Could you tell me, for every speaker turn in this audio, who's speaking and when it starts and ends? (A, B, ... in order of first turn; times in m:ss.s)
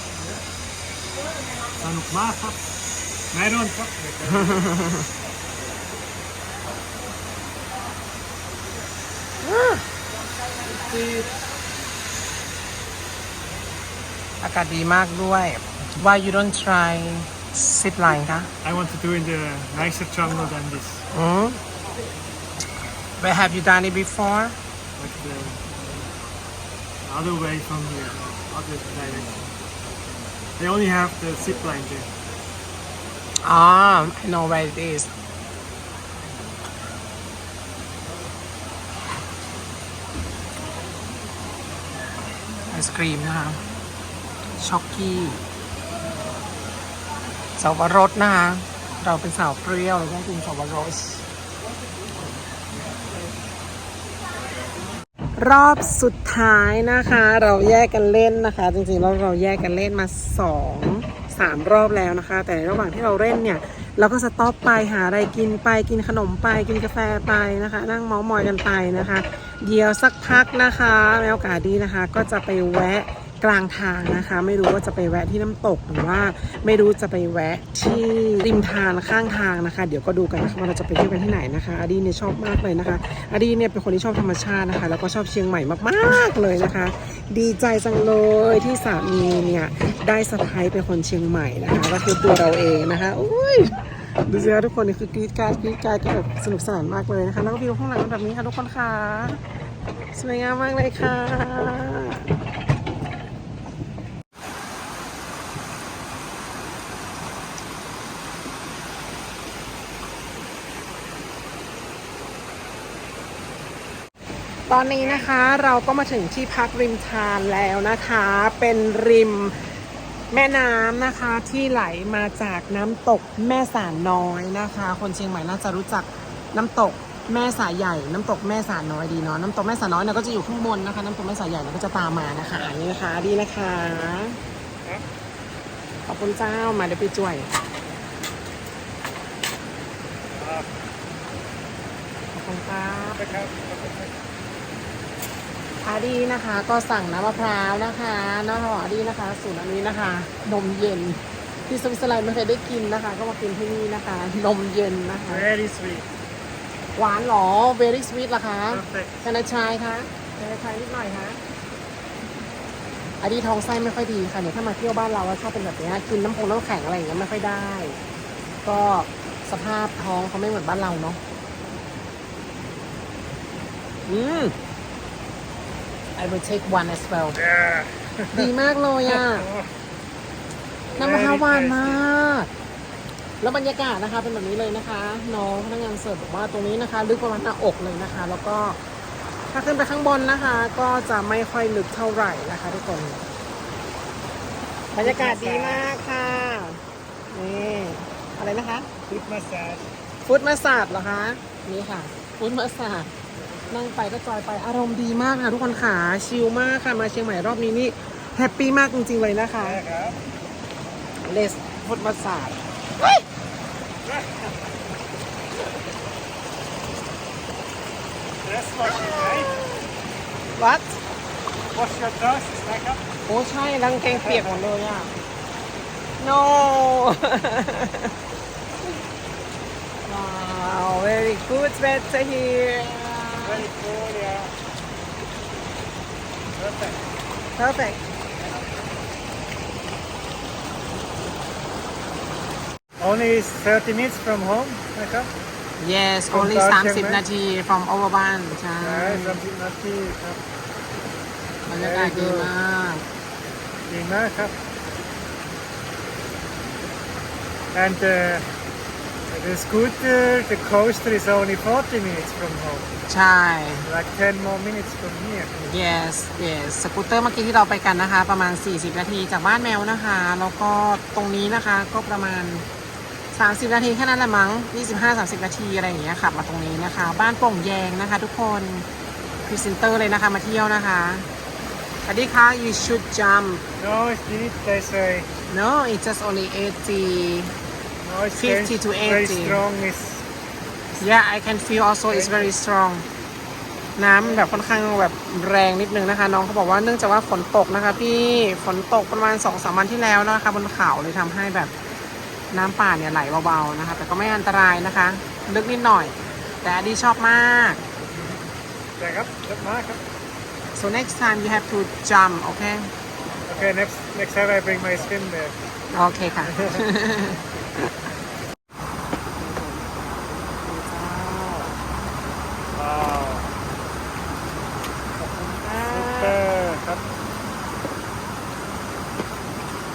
0:01.8-0:02.6 A
0:03.3-0:04.6 A
0:04.3-0:05.1 B
0:09.4-0:09.8 B
0:14.4-0:18.5 B
0:18.6-0:21.1 A
0:21.1-0:21.6 B
0:23.2-0:24.6 B
0:25.0-0:25.8 A
0:27.0-0:29.5 A
0:30.6-0:32.1 A
0:33.4-0:35.1 B
0:42.7-0:43.6 B
0:44.6-0:45.4 B
0:47.6-0:51.2 B
0:55.4-1:39.4 B
1:40.1-1:42.2 B
1:54.7-1:59.7 B
1:55.0-1:55.3 A
2:00.3-2:14.4 B
2:16.1-2:17.5 B
2:20.3-2:20.7 A
2:22.3-2:23.3 B
2:23.2-2:24.1 A
2:25.8-2:35.5 B
2:35.3-2:36.1 A
2:37.0-2:41.4 B
2:38.7-2:39.2 A
2:43.2-2:48.0 B
2:48.6-2:51.2 B
2:54.1-2:54.5 B
2:56.2-2:57.4 B
2:57.3-2:58.5 A
2:58.3-2:59.5 B
2:59.0-2:59.7 A
3:00.9-3:02.0 A
3:01.0-3:02.5 B
3:03.4-3:08.8 B
3:09.5-3:13.2 B
3:14.9-3:18.9 B
3:15.0-3:16.0 A
3:19.1-3:19.9 A
3:20.2-3:23.1 B
3:23.4-3:23.8 A
3:23.7-3:29.8 B
3:29.6-3:30.2 A
3:31.2-3:33.2 B
3:34.1-3:34.4 A
3:38.4-3:39.6 A
3:38.8-3:39.8 B
3:40.5-3:41.0 B
3:41.7-3:43.0 A
3:43.2-3:45.1 B
3:44.0-3:44.6 A
3:46.2-3:48.1 B
3:50.0-3:53.6 B
3:53.4-3:54.5 A
3:56.5-3:57.1 A
3:57.6-3:58.0 B
4:03.0-4:05.3 A
4:05.8-4:09.4 B
4:06.3-4:07.2 A
4:08.8-4:10.4 A
4:11.7-4:13.0 B
4:11.8-4:12.5 A
4:13.8-4:14.6 A
4:17.7-4:18.5 A
4:19.3-4:22.9 A
4:23.1-4:23.9 B
4:23.8-4:25.6 A
4:25.6-4:32.6 B
4:33.3-4:38.9 B
4:39.4-4:41.3 B
4:42.1-4:43.6 B
4:43.8-4:45.3 A
4:45.5-4:47.5 B
4:48.0-4:50.2 A
4:48.3-4:49.6 B
4:51.0-4:53.0 B
4:52.1-4:52.5 A
4:54.0-5:01.7 B
5:02.5-5:07.8 B
5:09.0-5:10.0 A
5:10.8-5:12.9 B
5:13.4-5:15.6 A
5:15.9-5:18.0 B
5:16.5-5:16.8 A
5:19.4-5:21.7 B
5:22.7-5:23.5 A
5:25.2-5:27.0 A
5:25.6-5:26.4 B